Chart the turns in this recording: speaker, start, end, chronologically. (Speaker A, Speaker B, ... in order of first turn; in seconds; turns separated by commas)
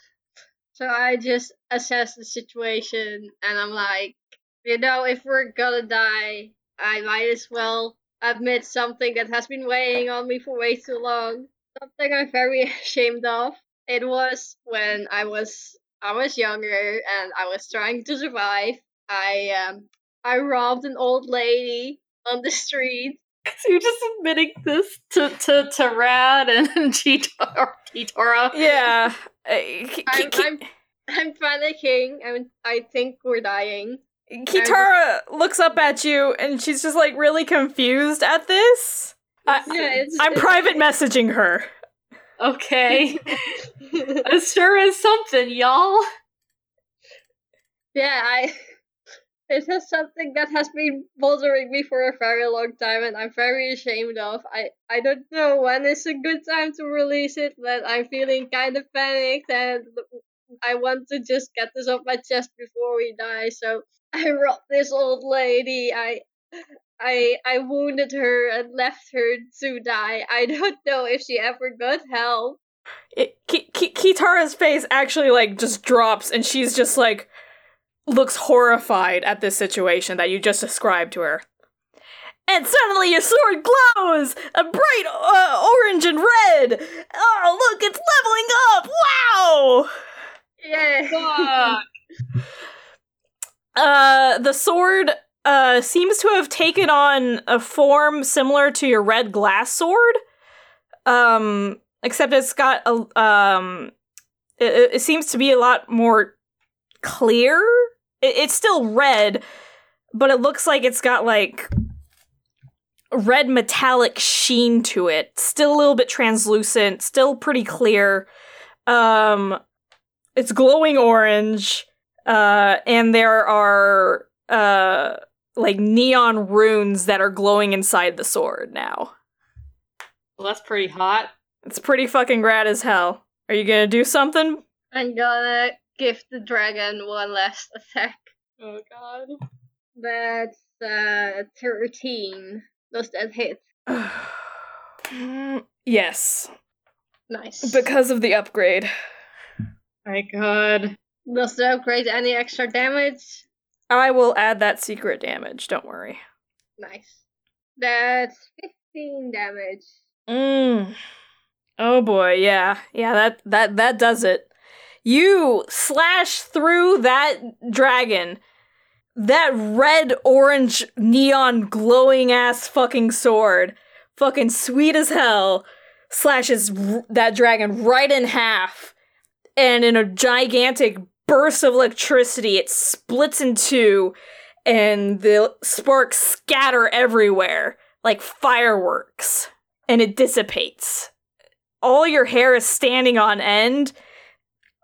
Speaker A: 0.8-23.2, Speaker B: 23.5-28.7, Speaker C: 28.5-30.5, Speaker A: 30.1-34.0, Speaker C: 34.3-41.7, Speaker A: 34.5-34.9, Speaker A: 39.6-40.8, Speaker B: 42.4-43.6, Speaker A: 42.9-43.2, Speaker A: 43.8-44.1, Speaker B: 44.2-46.0, Speaker A: 47.9-48.5, Speaker A: 49.5-60.0, Speaker A: 60.6-66.3, Speaker A: 67.0-72.6, Speaker C: 73.1-77.3, Speaker C: 78.1-81.4, Speaker C: 82.5-89.9, Speaker A: 90.6-91.8, Speaker B: 91.1-91.8, Speaker C: 93.7-100.2, Speaker C: 101.0-103.9, Speaker C: 104.6-106.3, Speaker C: 107.0-109.4, Speaker C: 110.1-111.7, Speaker C: 113.1-118.3, Speaker C: 118.9-119.6, Speaker C: 120.4-129.1, Speaker B: 130.4-131.3, Speaker C: 131.6-134.6, Speaker A: 134.9-138.3, Speaker B: 138.6-139.3, Speaker A: 140.0-143.6, Speaker C: 143.9-144.4, Speaker C: 145.1-146.5, Speaker A: 147.3-147.8, Speaker C: 147.6-148.9, Speaker B: 150.1-150.9, Speaker A: 151.3-153.4, Speaker C: 153.9-156.2, Speaker A: 156.8-157.2, Speaker A: 157.8-159.9, Speaker C: 160.3-160.9, Speaker C: 161.8-164.5, Speaker C: 165.0-168.4, Speaker C: 169.2-178.9, Speaker C: 179.6-184.1, Speaker C: 184.7-191.1, Speaker C: 191.8-193.9